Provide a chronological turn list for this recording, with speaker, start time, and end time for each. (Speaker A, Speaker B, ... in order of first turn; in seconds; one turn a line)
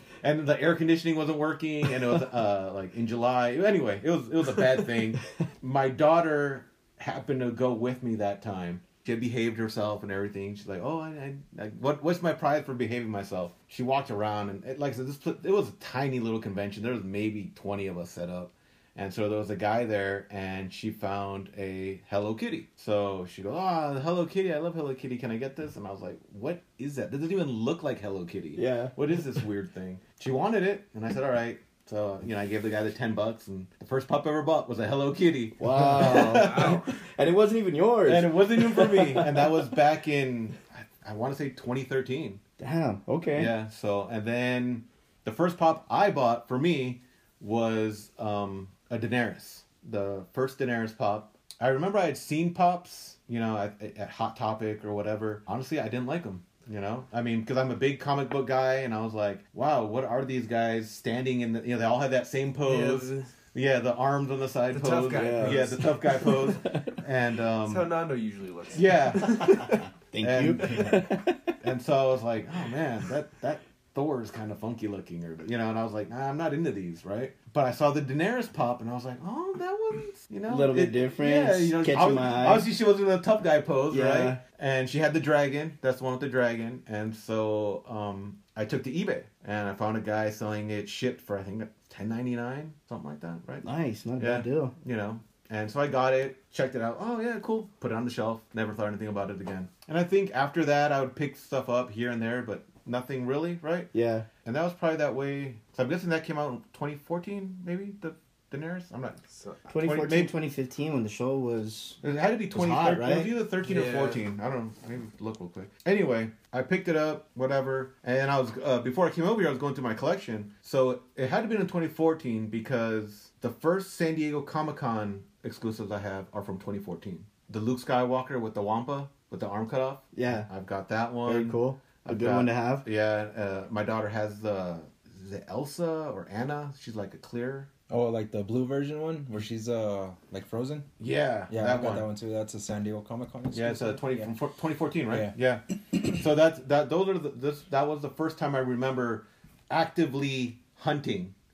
Speaker A: 0.2-36.8
Speaker B: 28.6-29.0
Speaker B: 35.6-39.6
Speaker C: 36.0-37.0
Speaker A: 38.1-42.4
Speaker B: 42.6-43.5
Speaker A: 43.4-67.9
Speaker C: 62.6-63.3
Speaker C: 64.7-66.3
Speaker B: 65.1-67.0
Speaker C: 67.6-69.8
Speaker A: 68.7-71.0
Speaker B: 69.4-71.6
Speaker A: 71.6-93.7
Speaker B: 80.5-82.7
Speaker B: 83.9-84.4
Speaker B: 93.6-94.7
Speaker A: 94.2-103.9
Speaker B: 103.9-104.3
Speaker A: 104.4-109.2
Speaker C: 109.3-109.7
Speaker B: 109.7-112.0
Speaker A: 109.8-110.3
Speaker A: 112.0-137.7
Speaker B: 112.5-113.3
Speaker C: 113.6-114.2
Speaker B: 130.2-130.5
Speaker B: 131.2-132.8
Speaker D: 137.9-140.9
Speaker A: 141.0-142.1
Speaker D: 141.5-144.3
Speaker A: 143.5-151.3